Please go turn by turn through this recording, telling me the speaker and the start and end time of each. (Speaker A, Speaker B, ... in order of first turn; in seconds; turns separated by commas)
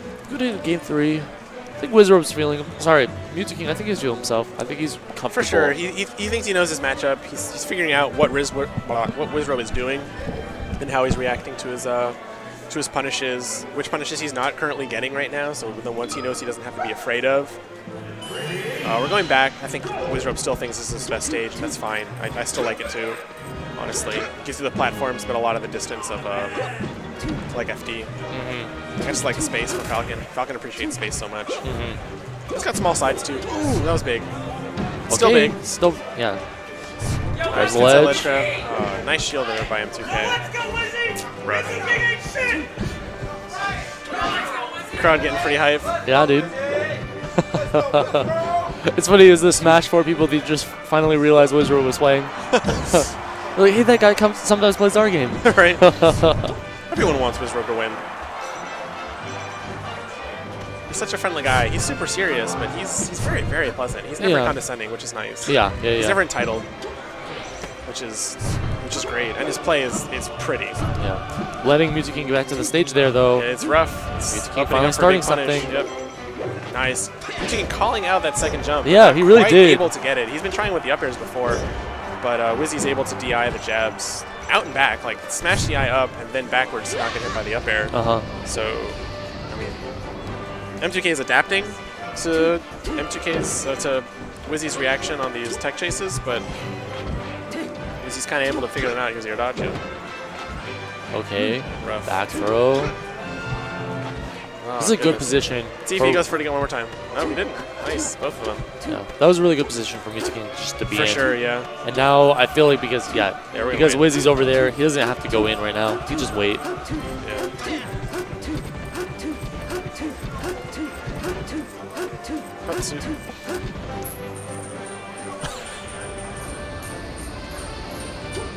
Speaker A: 0.2-5.8, Speaker B: 5.3-10.1, Speaker B: 10.7-12.2, Speaker B: 12.7-17.6, Speaker B: 18.8-23.2, Speaker B: 23.7-26.7, Speaker B: 27.5-28.1, Speaker A: 28.3-28.7, Speaker B: 28.9-31.6, Speaker A: 31.6-32.0, Speaker B: 32.5-34.3, Speaker B: 35.0-35.6, Speaker A: 35.1-36.5, Speaker B: 37.5-40.4, Speaker A: 37.5-38.3, Speaker B: 41.4-41.9, Speaker B: 44.9-45.9, Speaker A: 46.0-46.5, Speaker A: 47.4-48.3, Speaker A: 48.8-56.5, Speaker B: 55.4-56.3, Speaker B: 56.9-58.0, Speaker B: 60.9-66.7, Speaker A: 64.2-64.6, Speaker A: 65.5-66.2, Speaker B: 67.8-70.8, Speaker A: 70.9-75.7, Speaker B: 73.3-76.0, Speaker B: 76.7-81.6, Speaker A: 78.8-79.8, Speaker B: 82.2-89.8, Speaker A: 87.9-88.3, Speaker B: 90.8-96.5, Speaker B: 98.0-99.8, Speaker A: 101.1-102.9, Speaker B: 101.8-102.1, Speaker B: 104.6-108.7, Speaker A: 104.8-106.3, Speaker A: 108.8-116.6, Speaker B: 110.9-111.7, Speaker B: 113.5-114.1, Speaker B: 117.2-117.5, Speaker B: 122.7-123.1